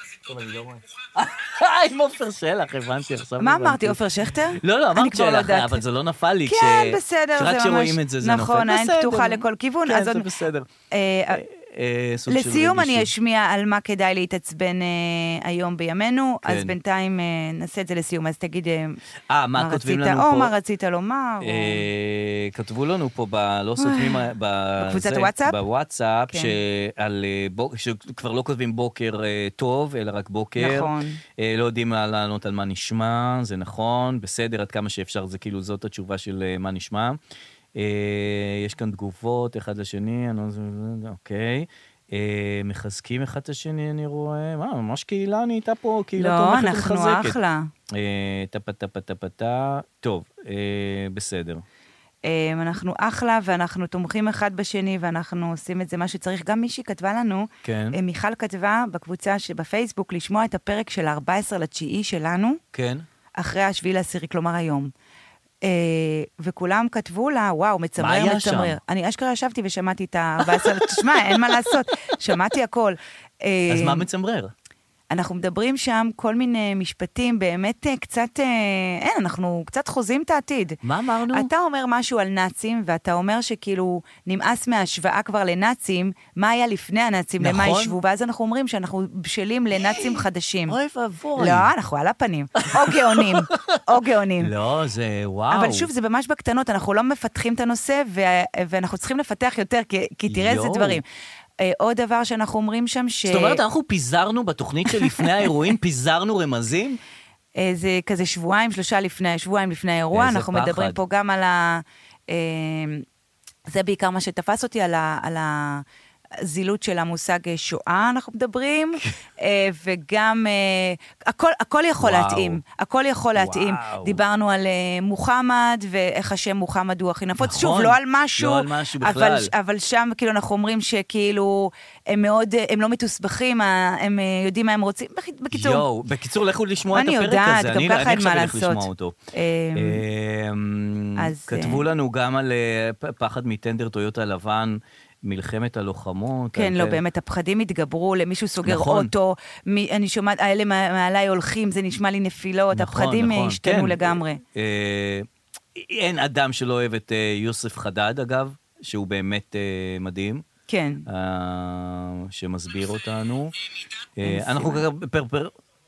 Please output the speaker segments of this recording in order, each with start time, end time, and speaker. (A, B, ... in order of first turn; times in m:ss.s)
0:00.3-0:10.7 A
0:03.4-0:05.8 B
0:06.4-0:10.3 B
0:10.9-0:11.4 B
0:11.3-0:13.1 A
0:12.3-0:19.0 B
0:16.4-0:16.7 A
0:19.3-0:20.5 A
0:19.6-0:21.8 B
0:21.4-0:37.2 A
0:23.8-0:24.3 B
0:24.8-0:25.6 B
0:26.3-0:26.5 B
0:30.6-0:31.2 B
0:37.7-0:47.4 A
0:46.2-0:47.7 B
0:47.9-0:51.6 A
0:52.2-1:02.6 B
0:57.6-0:58.0 A
1:02.7-1:03.0 A
1:03.4-1:04.9 B
1:05.6-1:14.0 B
1:08.0-1:08.8 A
1:13.7-1:14.5 A
1:15.1-1:20.8 B
1:20.8-1:21.5 A
1:21.3-1:30.8 B
1:27.4-1:27.9 A
1:29.8-1:31.7 A
1:31.4-1:34.5 B
1:32.6-1:33.8 A
1:34.4-1:35.9 A
1:35.5-1:41.0 B
1:40.3-1:41.0 A
1:41.6-1:43.6 B
1:43.2-1:47.0 A
1:44.9-1:45.4 B
1:47.6-1:53.0 B
1:50.1-1:51.0 A
1:53.6-1:55.8 B
1:56.4-2:15.8 B
2:02.0-2:02.6 A
2:03.3-2:04.2 A
2:07.4-2:09.5 A
2:15.5-2:19.1 A
2:16.9-2:20.0 B
2:19.7-2:27.0 A
2:21.2-2:21.8 B
2:26.5-2:34.4 B
2:28.6-2:29.1 A
2:32.7-2:40.4 A
2:40.7-2:41.0 B
2:41.1-2:43.5 A
2:44.2-2:45.5 A
2:44.2-2:44.8 B